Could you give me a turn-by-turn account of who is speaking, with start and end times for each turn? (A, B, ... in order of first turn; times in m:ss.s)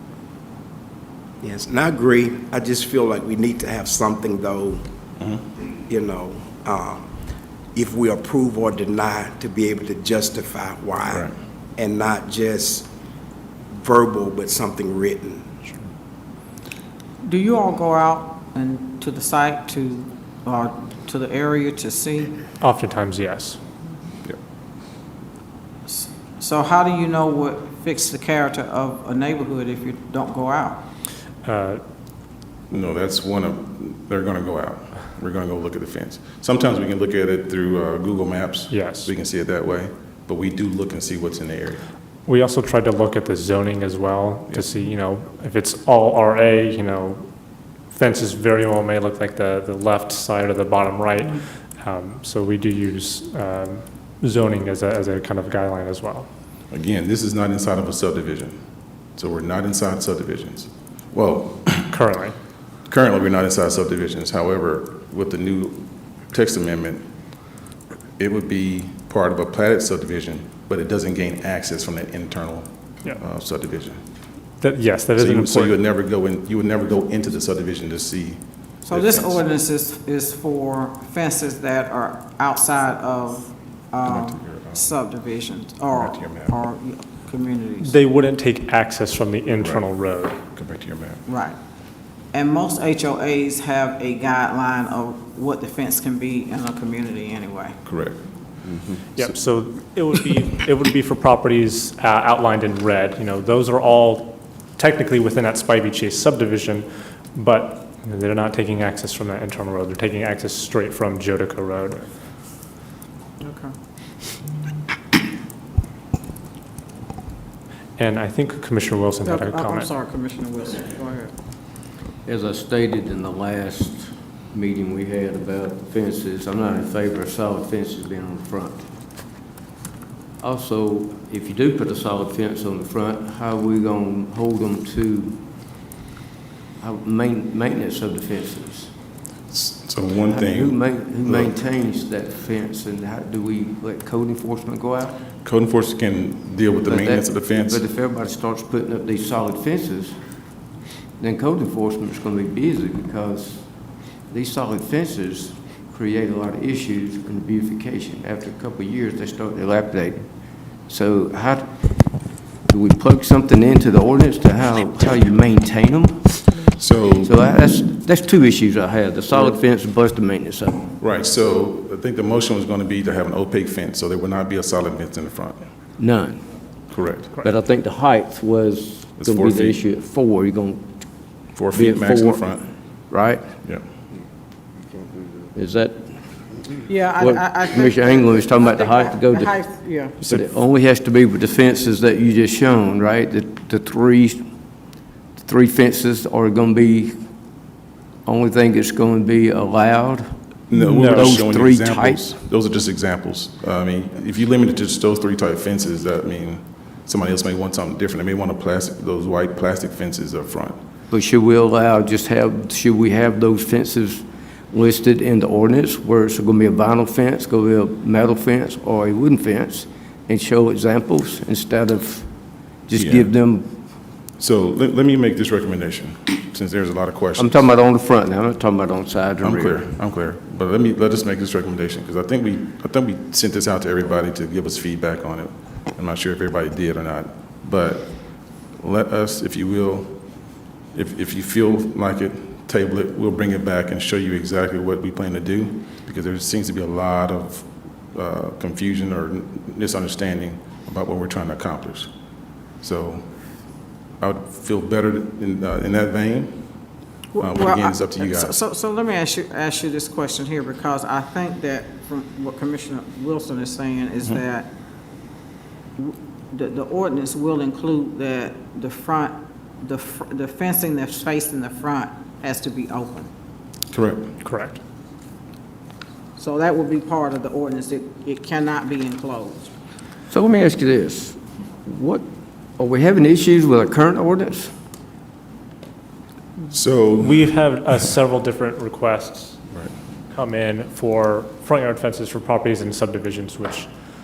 0:01.4-0:04.8 A
0:05.9-0:07.1 A
0:07.7-0:12.9 A
0:13.7-0:15.4 A
0:17.2-0:22.4 B
0:22.6-0:23.6 C
0:25.9-0:30.8 B
0:31.4-0:31.8 C
0:32.7-0:41.8 D
0:38.7-0:39.1 C
0:42.2-0:47.2 C
0:47.9-0:56.3 C
0:56.7-0:58.6 D
0:59.1-1:02.0 D
1:01.9-1:02.4 C
1:02.9-1:07.0 D
1:08.2-1:14.0 D
1:14.6-1:15.7 C
1:15.2-1:19.4 D
1:18.8-1:27.9 B
1:24.0-1:24.9 D
1:25.9-1:26.6 D
1:27.8-1:30.4 C
1:29.6-1:29.8 D
1:30.5-1:31.2 D
1:31.2-1:31.6 B
1:32.3-1:37.8 B
1:37.8-1:38.2 D
1:39.1-1:52.1 C
1:53.4-1:53.7 B
1:58.0-1:59.9 C
1:59.2-2:01.3 B
2:02.2-2:08.9 E
2:10.4-2:15.5 E
2:16.8-2:18.9 E
2:19.5-2:21.5 D
2:20.2-2:25.2 E
2:25.4-2:27.8 D
2:26.8-2:30.2 E
2:31.2-2:40.3 E
2:40.8-2:46.6 E
2:46.7-2:47.3 D
2:47.2-2:50.9 E
2:51.0-2:55.6 D
2:56.0-2:56.4 E
2:56.9-2:57.4 D
2:57.4-3:00.9 E
2:59.2-2:59.8 D
3:01.5-3:02.6 D
3:01.7-3:02.6 E
3:03.1-3:03.6 E
3:05.5-3:06.2 E
3:06.9-3:10.2 B
3:07.2-3:09.5 E
3:10.2-3:14.4 E
3:15.4-3:17.1 E
3:18.2-3:20.3 E
3:20.7-3:30.8 D
3:20.7-3:21.4 C
3:21.0-3:22.3 E
3:31.1-3:43.7 E
3:43.0-3:43.3 D
3:44.4-3:47.7 D
3:47.4-3:49.9 E
3:49.4-4:12.1 D
4:12.8-4:13.4 D
4:14.2-4:16.8 D
4:17.3-4:24.7 B
4:17.4-4:18.6 D
4:26.0-4:33.3 B
4:33.9-4:34.3 D
4:34.4-4:34.8 C
4:36.4-4:39.7 B
4:40.3-4:42.2 E
4:42.8-4:44.7 E
4:46.7-4:47.5 D
4:47.2-4:49.6 C
4:50.3-4:53.9 C